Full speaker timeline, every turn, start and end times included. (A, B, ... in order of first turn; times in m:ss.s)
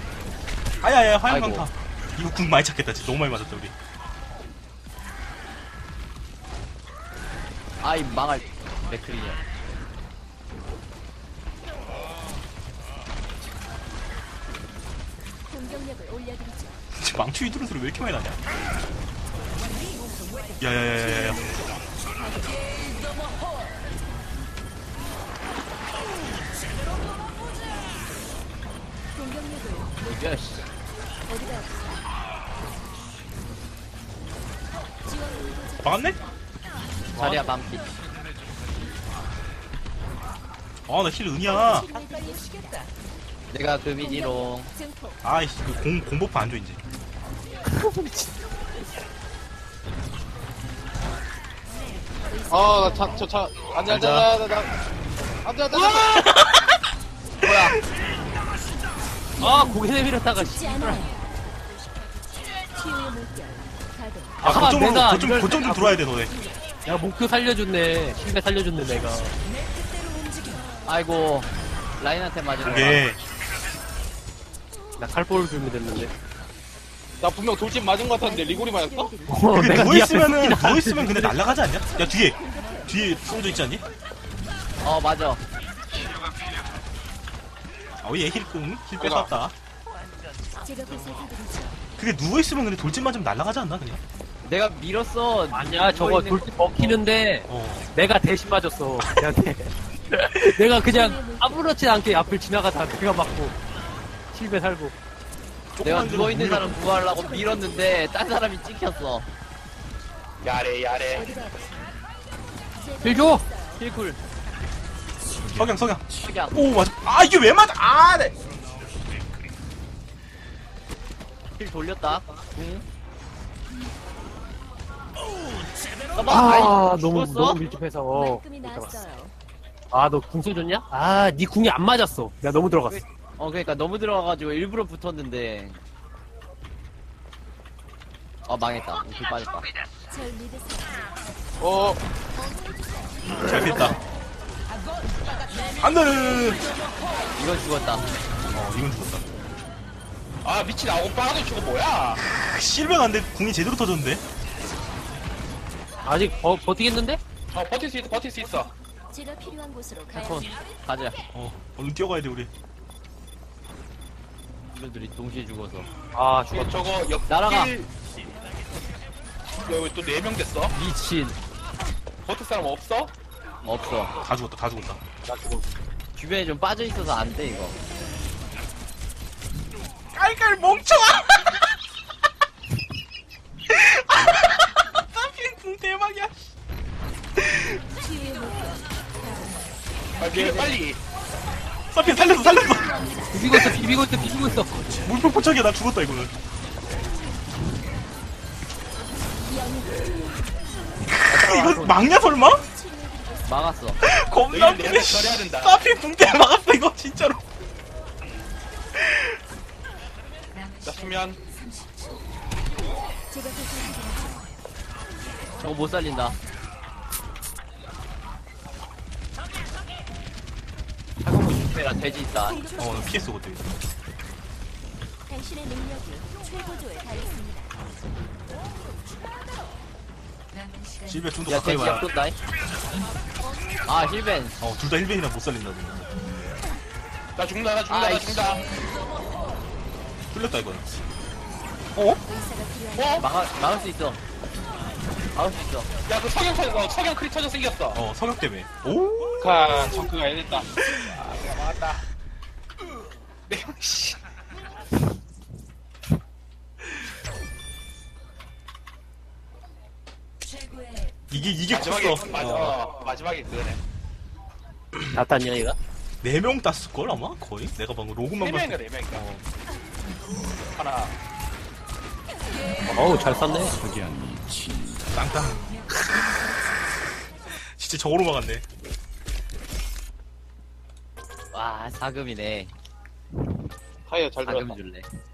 0:00.8-0:03.7 A
0:01.3-0:01.7 B
0:07.8-0:09.4 B
0:15.7-0:16.7 C
0:16.9-0:18.4 A
0:20.6-0:21.5 A
0:30.0-0:30.7 B
0:31.3-0:31.6 C
0:35.3-0:35.6 C
0:35.8-0:36.2 A
0:37.1-0:37.9 B
0:37.2-0:37.4 A
0:40.9-0:41.9 A
0:41.9-0:42.8 C
0:43.5-0:44.7 B
0:45.2-0:46.8 A
0:47.6-0:48.3 D
0:52.3-0:53.1 C
0:52.5-0:54.7 E
0:53.9-0:54.3 D
0:55.4-0:56.3 E
0:55.7-0:56.3 D
0:57.4-0:57.8 B
0:59.4-1:01.2 D
1:02.7-1:03.5 C
1:04.4-1:06.0 D
1:04.4-1:06.3 A
1:06.8-1:09.3 D
1:10.8-1:13.0 B
1:12.6-1:13.2 A
1:15.0-1:16.1 D
1:17.2-1:19.1 E
1:19.2-1:21.5 D
1:19.5-1:23.8 A
1:24.8-1:25.4 B
1:28.0-1:29.5 A
1:29.0-1:29.3 E
1:30.6-1:31.7 C
1:32.0-1:34.0 A
1:34.4-1:37.0 B
1:35.5-1:43.5 D
1:37.5-1:37.9 A
1:41.0-1:41.4 C
1:44.3-1:44.9 D
1:45.8-1:46.8 A
1:45.8-1:49.3 B
1:50.4-1:51.4 F
1:51.2-1:51.9 C
1:53.0-1:53.4 C
1:53.0-1:53.4 D
1:53.7-1:54.2 B
1:55.5-1:58.3 A
1:56.1-1:56.7 B
2:01.6-2:02.8 B
2:06.1-2:07.6 B
2:06.2-2:09.0 D
2:08.2-2:09.3 C
2:09.9-2:13.0 D
2:13.4-2:15.8 B
2:18.5-2:19.7 B
2:20.3-2:20.6 C
2:21.6-2:22.0 E
2:23.3-2:24.0 A
2:25.8-2:26.7 A
2:27.3-2:28.1 B
2:28.5-2:29.2 A
2:30.4-2:32.2 F
2:32.3-2:34.2 A
2:36.0-2:37.2 D
2:37.5-2:38.7 F
2:39.2-2:40.4 C
2:40.1-2:41.2 B
2:41.3-2:42.5 A
2:44.7-2:45.9 B
2:46.1-2:46.8 D
2:46.5-2:47.9 F
2:47.3-2:47.7 B
2:49.6-2:50.7 F
2:50.7-2:51.4 B
2:52.2-2:53.1 F
2:53.6-2:54.1 B
2:54.2-2:55.0 A
2:55.3-2:55.6 D
2:56.2-2:57.8 B
3:00.1-3:01.5 A
3:03.7-3:06.5 A
3:07.4-3:07.8 A
3:08.1-3:08.8 C
3:10.2-3:11.0 F
3:10.2-3:10.7 B
3:11.9-3:13.8 A
3:13.3-3:14.9 D
3:14.9-3:16.3 A
3:21.0-3:22.7 A
3:21.3-3:22.0 B
3:23.0-3:23.2 C
3:23.4-3:24.0 B
3:24.0-3:27.4 A
3:24.5-3:25.8 F
3:28.9-3:29.4 A
3:30.8-3:31.4 F
3:33.5-3:34.1 C
3:35.6-3:36.4 B
3:41.2-3:42.6 B
3:42.8-3:43.7 A
3:45.3-3:47.6 C
3:51.0-3:52.1 A
3:51.5-3:52.4 B
3:53.8-3:54.6 B
3:54.6-3:56.1 A
3:57.4-3:58.6 F
3:57.9-3:58.6 B
4:00.3-4:00.9 A
4:02.4-4:03.2 C
4:02.9-4:03.2 F
4:03.2-4:04.2 B
4:05.3-4:05.9 B
4:06.1-4:08.0 F
4:07.9-4:09.8 A
4:09.4-4:10.7 E
4:11.0-4:12.0 F
4:13.5-4:14.2 F
4:21.3-4:22.7 A
4:21.7-4:23.8 F
4:25.1-4:25.8 D
4:26.2-4:29.4 A
4:28.4-4:29.2 F
4:30.7-4:31.2 F
4:32.9-4:33.8 D
4:35.1-4:35.7 A
4:37.6-4:38.6 A
4:41.5-4:42.7 B
4:44.0-4:44.8 E
4:44.4-4:45.0 B